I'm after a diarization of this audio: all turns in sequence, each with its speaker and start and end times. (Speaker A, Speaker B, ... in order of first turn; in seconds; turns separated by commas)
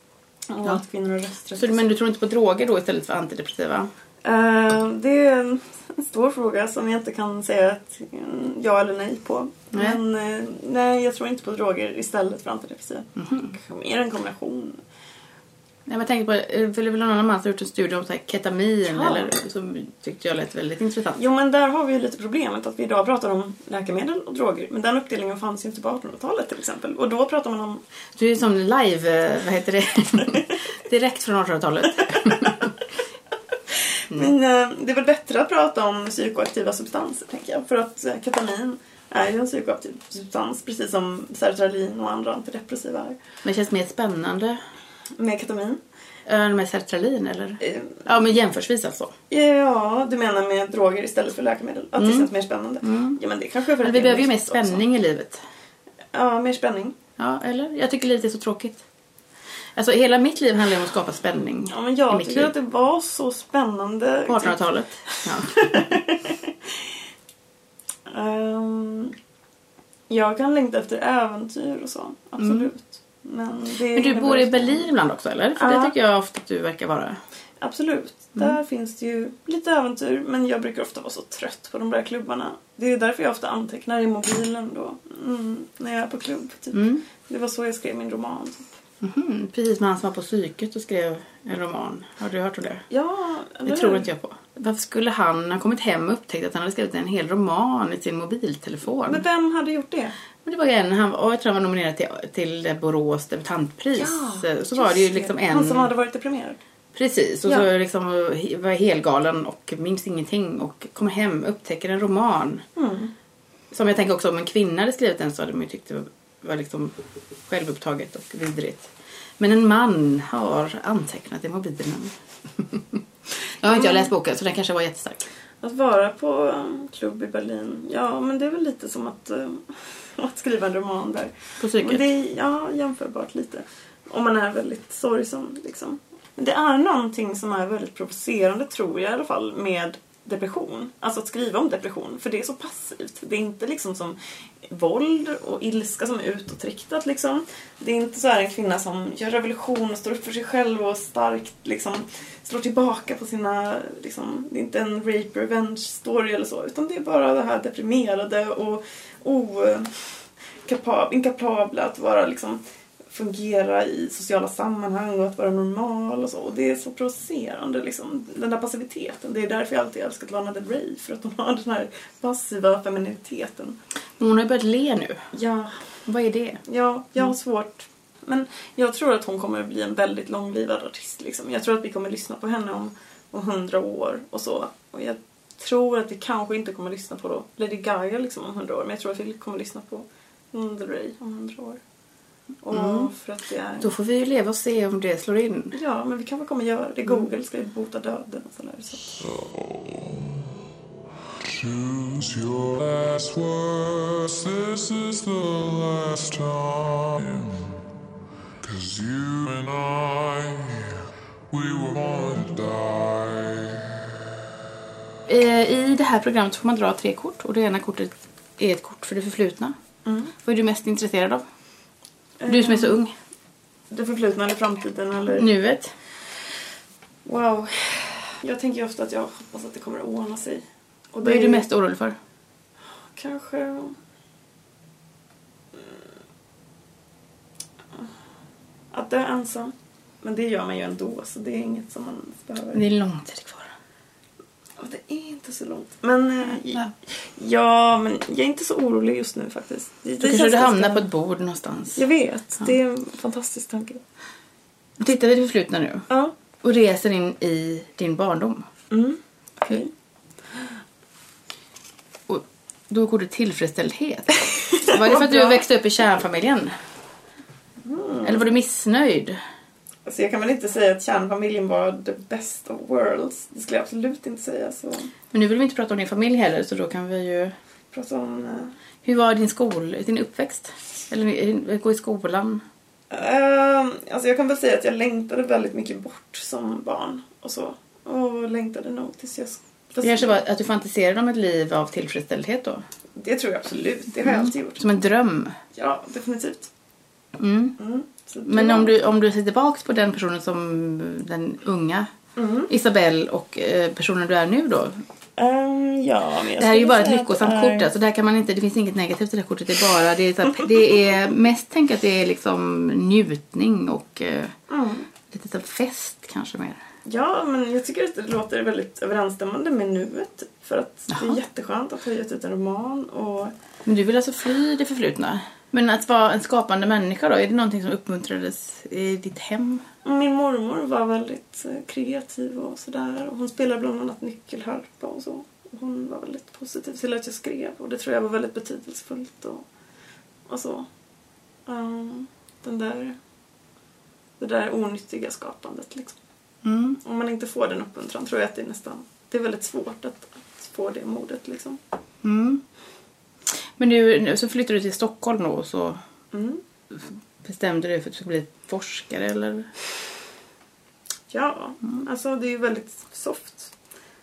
Speaker A: 0.5-1.8, Speaker B: 1.6-3.9, Speaker A: 4.2-14.8, Speaker B: 9.7-10.0, Speaker B: 13.2-13.5, Speaker B: 15.9-21.2, Speaker A: 18.9-19.3, Speaker A: 21.2-27.8, Speaker B: 28.2-32.7, Speaker A: 32.3-32.6, Speaker A: 33.7-43.2, Speaker B: 43.4-44.6, Speaker A: 45.2-45.8, Speaker B: 46.3-49.1, Speaker A: 47.6-48.1, Speaker A: 49.3-54.8, Speaker B: 52.0-52.3, Speaker B: 52.8-53.2, Speaker B: 53.8-55.4, Speaker A: 56.1-57.0, Speaker B: 57.2-58.8, Speaker B: 59.8-62.5, Speaker A: 61.7-66.5, Speaker B: 64.3-66.0, Speaker A: 68.1-69.2, Speaker A: 70.1-74.9, Speaker B: 72.4-72.7, Speaker B: 73.9-77.2, Speaker A: 75.6-75.9, Speaker A: 77.6-88.8, Speaker B: 86.7-87.0, Speaker B: 89.0-92.8, Speaker A: 92.9-94.1, Speaker B: 93.7-99.2, Speaker A: 99.1-100.2, Speaker B: 100.4-105.9, Speaker A: 104.0-106.6, Speaker B: 106.9-112.6, Speaker A: 112.8-113.1, Speaker B: 113.7-117.0, Speaker B: 117.5-125.3, Speaker A: 123.7-124.1, Speaker A: 125.6-173.8, Speaker B: 131.6-132.0, Speaker B: 174.2-175.2, Speaker A: 175.3-175.9, Speaker B: 176.1-176.6, Speaker A: 176.6-191.8, Speaker A: 192.6-193.9, Speaker B: 192.7-193.1, Speaker B: 193.8-195.8, Speaker A: 195.7-199.2, Speaker C: 199.2-200.5, Speaker C: 201.4-207.8, Speaker C: 208.6-211.0, Speaker C: 211.5-213.9, Speaker B: 215.3-219.8, Speaker A: 220.1-220.3, Speaker B: 220.4-221.4, Speaker A: 222.4-223.0, Speaker B: 222.5-223.1, Speaker A: 223.9-225.5, Speaker B: 225.3-226.0, Speaker A: 227.2-231.7, Speaker B: 231.2-232.2, Speaker A: 233.1-234.0, Speaker A: 235.8-236.0, Speaker A: 238.9-242.8, Speaker B: 242.7-243.7, Speaker A: 244.8-251.1, Speaker B: 250.2-252.0, Speaker A: 251.9-254.0, Speaker B: 255.0-256.1, Speaker B: 256.6-258.7, Speaker A: 258.9-259.9, Speaker B: 262.3-266.8, Speaker A: 264.8-265.6, Speaker A: 267.8-268.4, Speaker B: 268.2-269.4, Speaker A: 270.1-275.1, Speaker B: 275.3-277.6, Speaker A: 277.9-278.8, Speaker B: 279.0-282.6, Speaker A: 283.1-290.4, Speaker B: 290.0-292.8, Speaker A: 293.2-294.9, Speaker B: 294.2-295.6, Speaker A: 295.8-296.7, Speaker B: 297.4-297.8, Speaker A: 297.8-299.0, Speaker B: 298.4-302.1, Speaker A: 302.4-302.7, Speaker B: 302.7-305.0, Speaker A: 305.4-307.9, Speaker B: 306.6-314.6, Speaker A: 314.7-315.1, Speaker B: 315.3-316.8, Speaker A: 317.1-323.5, Speaker B: 321.1-321.4, Speaker B: 323.9-329.9, Speaker A: 330.0-339.6, Speaker A: 340.5-340.9, Speaker A: 341.7-343.2, Speaker A: 344.4-346.2, Speaker B: 346.6-347.0, Speaker A: 347.0-351.8, Speaker B: 352.2-352.6, Speaker B: 353.5-356.0, Speaker A: 356.3-356.6, Speaker B: 356.9-359.7, Speaker A: 361.3-363.7